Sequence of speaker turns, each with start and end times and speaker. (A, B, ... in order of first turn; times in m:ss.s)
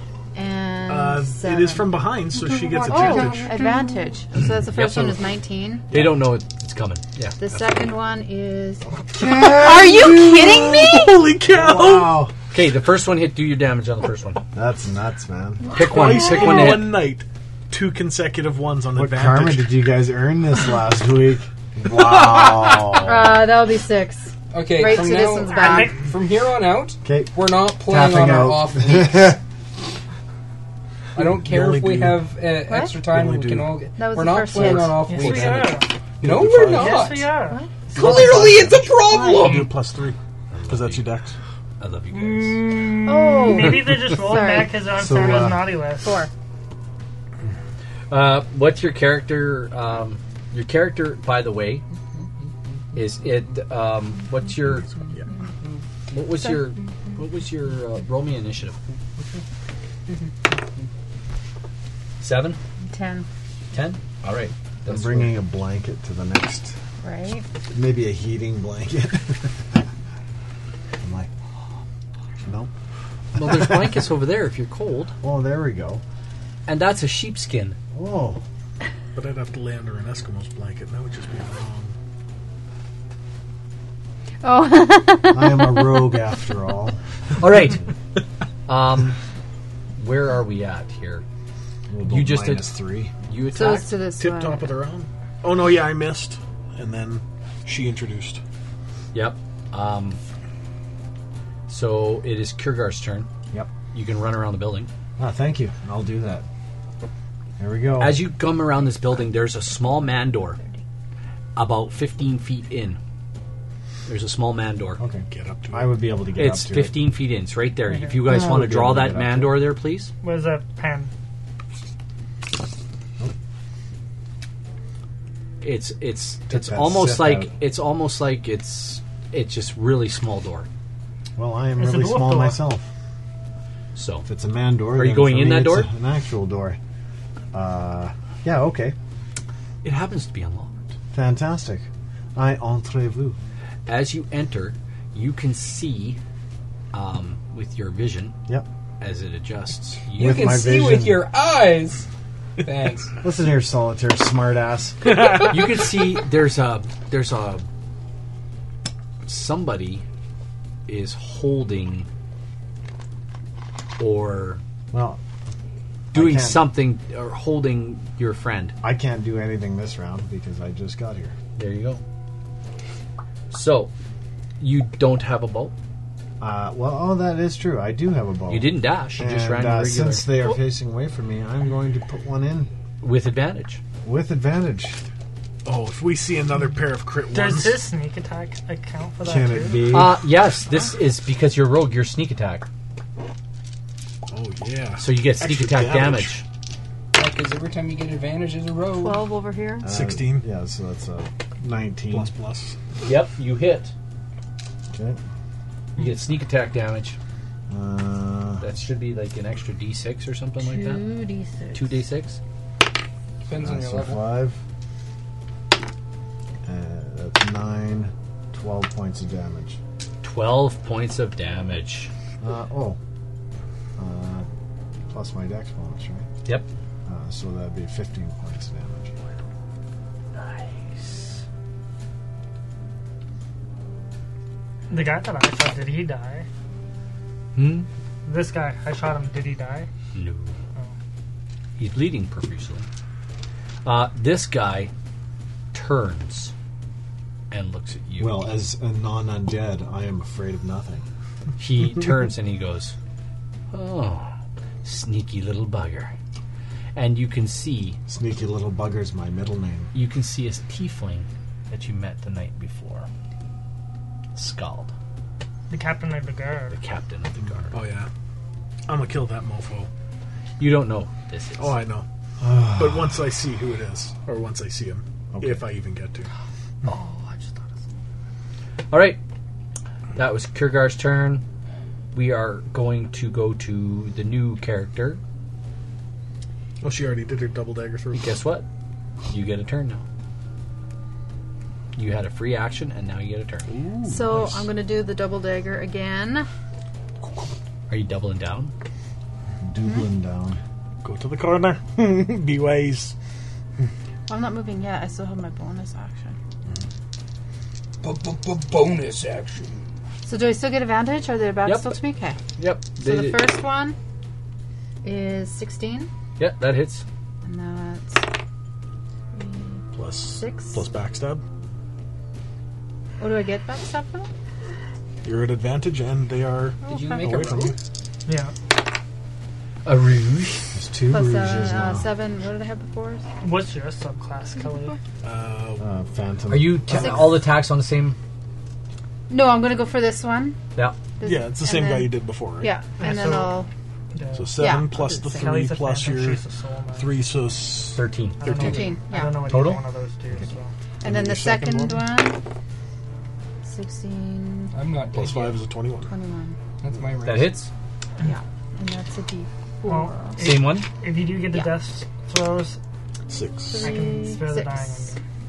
0:00.3-0:05.9 A
0:00.8-0:03.6 B
0:02.9-0:03.5 C
0:04.7-0:05.2 D
0:05.9-0:07.9 D
0:05.9-0:06.2 B
0:07.4-0:11.2 A
0:09.2-0:12.3 B
0:11.5-0:12.3 E
0:12.5-0:14.4 D
0:14.5-0:15.7 E
0:15.7-0:16.9 D
0:15.8-0:19.7 B
0:18.9-0:23.5 E
0:23.0-0:25.9 A
0:24.5-0:29.4 C
0:24.9-0:26.0 F
0:27.0-0:29.4 E
0:31.2-0:32.2 B
0:31.2-0:37.3 C
0:32.7-0:32.9 A
0:33.1-0:33.8 E
0:34.0-0:35.0 A
0:34.5-0:37.2 B
0:35.0-0:35.9 F
0:36.7-0:37.6 F
0:37.4-0:39.5 A
0:37.9-0:40.2 B
0:37.9-0:39.7 C
0:40.5-0:41.1 D
0:40.7-0:41.4 B
0:41.8-0:42.7 D
0:42.1-0:46.2 F
0:43.0-0:46.3 A
0:44.9-0:45.7 E
0:48.1-0:51.8 D
0:52.9-0:54.9 D
0:55.0-0:55.3 B
0:56.1-0:58.8 D
1:02.2-1:02.6 D
1:02.8-1:03.3 A
1:03.7-1:05.4 D
1:04.8-1:06.8 E
1:07.0-1:07.4 A
1:07.7-1:09.8 E
1:11.0-1:11.3 E
1:12.4-1:12.7 E
1:13.3-1:15.1 D
1:13.4-1:14.0 E
1:15.2-1:16.0 E
1:16.7-1:17.8 D
1:17.9-1:18.4 E
1:19.1-1:21.9 B
1:24.4-1:26.3 A
1:25.3-1:27.0 E
1:27.4-1:27.8 D
1:28.7-1:29.2 D
1:30.0-1:31.2 D
1:31.9-1:33.1 E
1:32.0-1:34.0 D
1:33.5-1:34.7 A
1:34.2-1:38.4 B
1:39.1-1:40.2 D
1:41.7-1:43.3 D
1:43.9-1:44.9 D
1:45.2-1:46.4 E
1:47.6-1:48.2 E
1:48.0-1:50.6 D
1:51.6-1:53.0 D
1:54.1-1:55.0 D
1:55.0-1:57.0 E
1:55.3-1:56.0 B
1:56.4-2:00.1 D
1:57.9-1:58.3 F
1:58.2-1:59.6 E
2:00.2-2:01.1 F
2:05.6-2:10.7 D
2:06.5-2:07.5 E
2:11.4-2:12.8 E
2:11.8-2:12.6 F
2:13.9-2:14.2 D
2:14.2-2:16.8 E
2:14.9-2:15.9 D
2:17.5-2:19.0 E
2:19.8-2:20.7 D
2:21.1-2:23.4 E
2:23.9-2:26.2 D
2:26.9-2:28.4 D
2:29.0-2:30.7 D
2:30.2-2:31.3 E
2:30.2-2:32.1 C
2:32.6-2:33.1 C
2:33.2-2:35.1 E
2:35.1-2:35.5 B
2:35.5-2:37.6 D
2:39.2-2:40.0 D
2:40.9-2:42.1 D
2:44.0-2:44.6 D
2:44.9-2:45.2 E
2:46.1-2:46.7 E
2:46.1-2:48.7 D
2:48.8-2:51.3 E
2:51.6-2:52.0 D
2:53.5-2:53.9 D
2:54.6-2:55.7 D
2:56.4-3:02.7 E
2:58.5-3:00.3 D
3:03.0-3:03.8 D
3:04.0-3:05.0 E
3:05.6-3:07.8 B
3:07.3-3:09.9 F
3:09.2-3:10.2 E
3:09.9-3:12.7 D
3:14.3-3:16.4 B
3:15.0-3:16.4 D
3:17.1-3:19.2 C
3:18.9-3:19.9 A
3:19.8-3:22.3 E
3:19.9-3:20.4 B
3:22.1-3:22.8 B
3:23.0-3:23.9 D
3:24.9-3:25.2 E
3:26.0-3:27.2 D
3:27.7-3:28.7 E
3:28.6-3:31.0 D
3:30.6-3:31.9 A
3:31.7-3:32.4 D
3:33.4-3:34.2 C
3:33.5-3:34.6 E
3:36.6-3:39.8 E
3:40.2-3:42.1 D
3:42.4-3:43.0 E
3:44.0-3:44.5 E
3:45.1-3:46.3 E
3:47.0-3:49.2 E
3:50.3-3:51.4 D
3:54.9-3:56.5 F
3:57.5-3:57.9 D
3:58.2-3:59.9 F
4:00.1-4:00.6 D
4:01.8-4:02.9 D
4:03.8-4:04.9 D
4:05.7-4:06.5 D
4:07.5-4:08.5 D
4:08.2-4:11.0 E
4:11.6-4:12.9 D
4:13.7-4:14.3 D
4:14.8-4:16.1 D
4:16.9-4:18.0 D
4:18.1-4:19.9 E
4:19.9-4:23.1 D
4:24.3-4:24.9 D
4:25.7-4:26.8 F
4:26.7-4:27.8 D
4:27.7-4:28.1 B
4:28.9-4:29.9 B
4:30.6-4:31.8 D
4:31.6-4:32.0 B
4:32.4-4:33.2 E
4:32.6-4:36.3 B
4:35.3-4:35.6 E
4:38.9-4:39.2 D
4:40.2-4:41.4 D
4:42.1-4:45.2 D
4:46.8-4:48.4 B
4:48.1-4:48.6 D
4:49.3-4:50.0 D
4:51.9-4:53.7 D
4:53.7-4:54.6 B
4:54.0-4:56.5 A
4:57.9-4:58.7 D
4:59.6-5:00.6 E
5:01.0-5:03.1 B
5:04.3-5:06.4 A
5:08.0-5:09.8 C
5:10.2-5:12.4 A
5:11.6-5:12.0 D
5:12.6-5:13.5 D
5:13.0-5:14.0 A
5:15.0-5:16.1 A
5:16.4-5:17.0 D
5:17.4-5:18.2 A
5:19.3-5:19.8 A
5:19.9-5:21.4 B
5:20.3-5:20.8 A
5:23.2-5:24.3 A
5:25.2-5:27.7 B
5:26.8-5:27.7 A
5:26.8-5:27.7 C
5:28.2-5:28.5 F
5:29.8-5:30.7 D
5:30.7-5:32.1 E
5:31.1-5:33.3 A
5:33.4-5:35.0 F
5:35.2-5:35.8 B
5:35.8-5:37.4 E
5:36.5-5:38.2 D
5:36.9-5:37.3 A
5:39.3-5:40.6 A
5:41.2-5:43.7 A
5:41.2-5:42.7 B
5:43.0-5:43.6 F
5:44.1-5:44.6 F
5:44.3-5:46.4 B
5:44.6-5:45.5 A
5:45.4-5:47.1 F
5:46.9-5:48.9 B
5:47.9-5:48.4 D
5:48.4-5:50.7 F
5:48.6-5:49.6 A
5:49.4-5:49.8 D
5:51.0-5:52.4 A
5:51.0-5:52.1 B
5:53.6-5:54.7 A
5:54.7-5:55.6 C
5:55.1-5:56.1 B
5:56.1-5:56.6 A
5:56.8-5:57.6 C
5:57.2-5:57.7 D
5:58.2-6:00.4 A
5:59.8-6:02.8 F
6:00.4-6:00.9 D
6:03.3-6:03.9 B
6:03.7-6:05.2 A
6:03.8-6:05.2 F